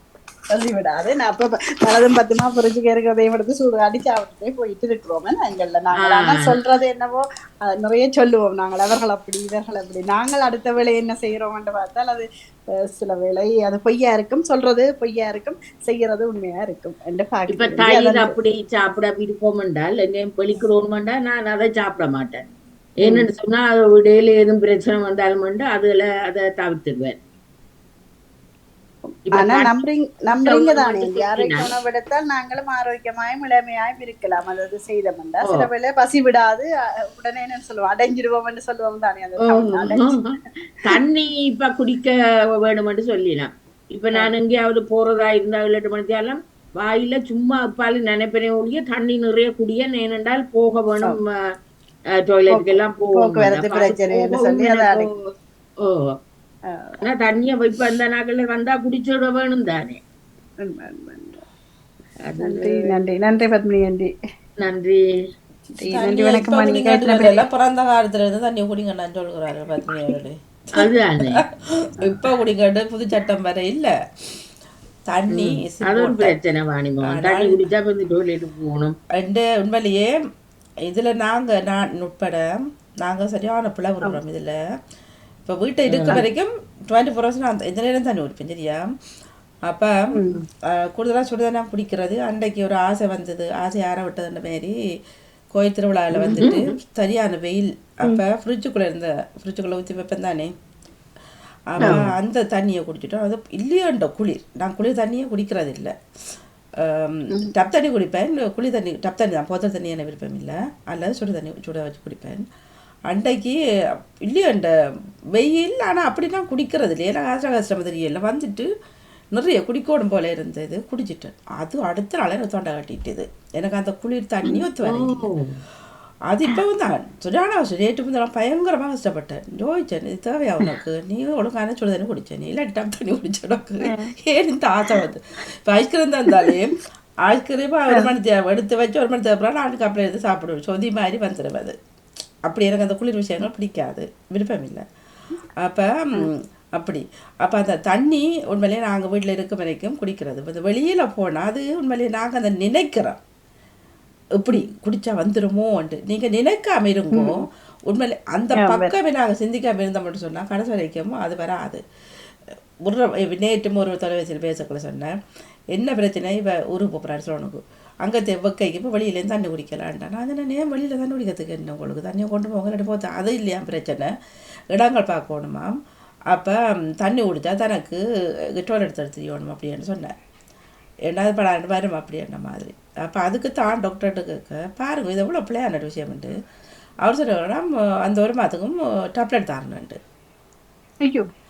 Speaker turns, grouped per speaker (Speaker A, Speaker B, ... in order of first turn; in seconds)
Speaker A: 0.5-12.3, 12.9-18.3, 23.0-23.3, 29.1-40.2, 52.5-55.1, 56.7-57.0, 60.6-61.4, 62.4-64.1, 65.8-67.4, 90.1-90.4, 96.2-96.5, 133.9-134.1, 136.3-136.5, 157.1-157.4, 158.6-158.9, 191.0-191.3
Speaker B: 6.0-6.5, 17.5-22.4, 23.0-27.2, 29.4-29.7, 30.4-31.7, 39.4-51.4, 52.2-55.2, 55.8-56.1, 57.0-60.0, 62.3-63.0, 64.6-65.1, 70.8-71.4, 75.3-79.0, 85.9-86.2, 96.3-96.7, 124.8-125.6
Speaker C: 65.8-73.9, 75.1-76.3, 77.0-77.7, 79.1-80.1, 80.8-84.6, 85.5-88.9, 89.7-89.9, 90.7-94.7, 95.5-100.5, 101.7-105.9, 106.8-112.4, 113.1-113.6, 114.2-114.7, 115.3-118.7, 119.3-125.2, 126.3-141.8, 142.4-144.8, 145.6-153.2, 154.4-161.8, 162.8-165.1, 165.7-174.1, 174.7-175.8, 176.3-178.0, 178.6-180.2, 181.1-186.4, 187.0-190.0